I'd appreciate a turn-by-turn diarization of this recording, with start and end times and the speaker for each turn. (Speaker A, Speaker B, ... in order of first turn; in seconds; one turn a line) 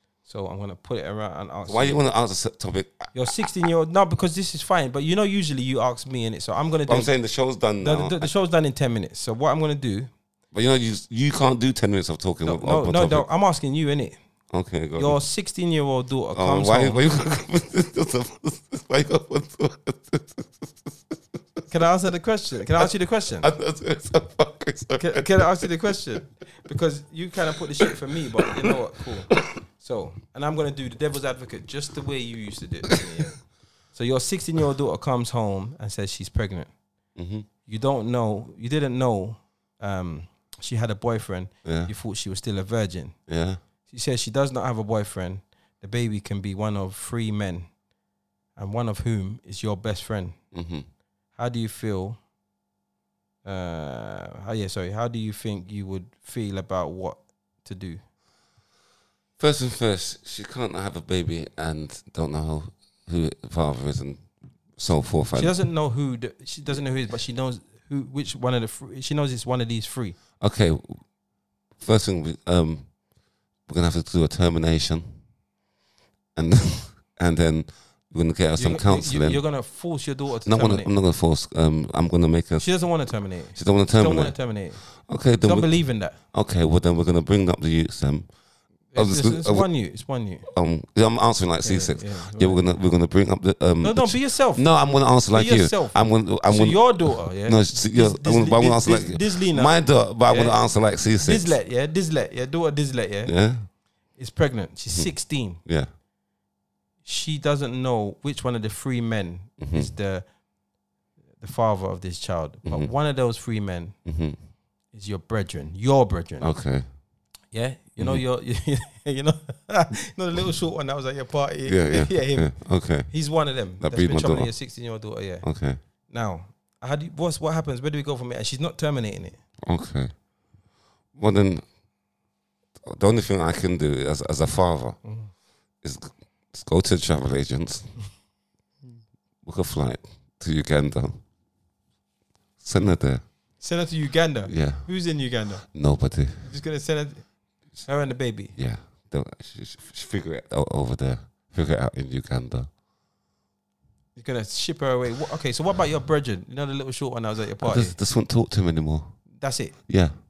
Speaker A: 0.2-2.0
Speaker B: 1.7-3.3
Speaker A: 3.1-7.1
Speaker B: 6.9-8.3
Speaker A: 7.8-10.1
Speaker B: 10.5-13.2
Speaker A: 12.4-14.2
Speaker B: 14.5-15.2
Speaker A: 15.0-17.0
Speaker B: 16.3-21.1
Speaker A: 21.7-23.5
Speaker B: 23.4-25.7
Speaker A: 25.0-33.4
Speaker B: 28.4-28.7
Speaker A: 33.9-36.7
Speaker B: 37.1-37.5
Speaker A: 37.6-43.1
Speaker B: 41.6-41.9
Speaker B: 43.3-43.6
Speaker A: 43.9-47.7
Speaker A: 48.5-50.4
Speaker B: 50.5-50.8
Speaker A: 51.4-52.2
Speaker A: 53.4-58.0
Speaker B: 59.4-64.2
Speaker B: 64.8-65.5
Speaker A: 65.3-70.2
Speaker B: 70.4-71.0
Speaker B: 71.8-72.9
Speaker B: 73.7-75.0
Speaker B: 76.4-79.4
Speaker A: 78.6-80.9
Speaker B: 80.5-82.7
Speaker A: 82.6-84.8
Speaker B: 83.5-84.3
Speaker B: 85.1-85.7
Speaker A: 85.4-86.2
Speaker B: 86.2-88.3
Speaker A: 88.9-90.4
Speaker B: 89.0-89.7
Speaker B: 90.5-101.5
Speaker A: 91.6-92.6
Speaker A: 93.8-94.6
Speaker A: 95.3-100.6
Speaker A: 101.2-103.3
Speaker B: 103.2-103.6
Speaker A: 104.2-105.6
Speaker A: 107.0-110.2
Speaker B: 109.6-109.9
Speaker A: 111.4-113.9
Speaker B: 114.0-114.4
Speaker A: 114.9-116.5
Speaker B: 116.4-116.8
Speaker A: 117.5-122.5
Speaker B: 118.0-118.2
Speaker B: 121.7-123.1
Speaker A: 123.1-125.4
Speaker B: 123.8-124.5
Speaker B: 125.4-125.8
Speaker A: 126.1-129.4
Speaker B: 129.6-130.1
Speaker B: 131.2-131.6
Speaker B: 132.8-135.0
Speaker A: 135.0-135.3
Speaker B: 135.8-137.9
Speaker B: 139.4-141.2
Speaker B: 142.6-143.2
Speaker A: 143.6-145.6
Speaker B: 144.5-144.9
Speaker B: 145.7-146.5
Speaker A: 146.4-147.2
Speaker A: 147.8-148.5
Speaker B: 148.6-152.7
Speaker A: 154.2-158.0
Speaker B: 157.6-159.1
Speaker A: 159.4-159.8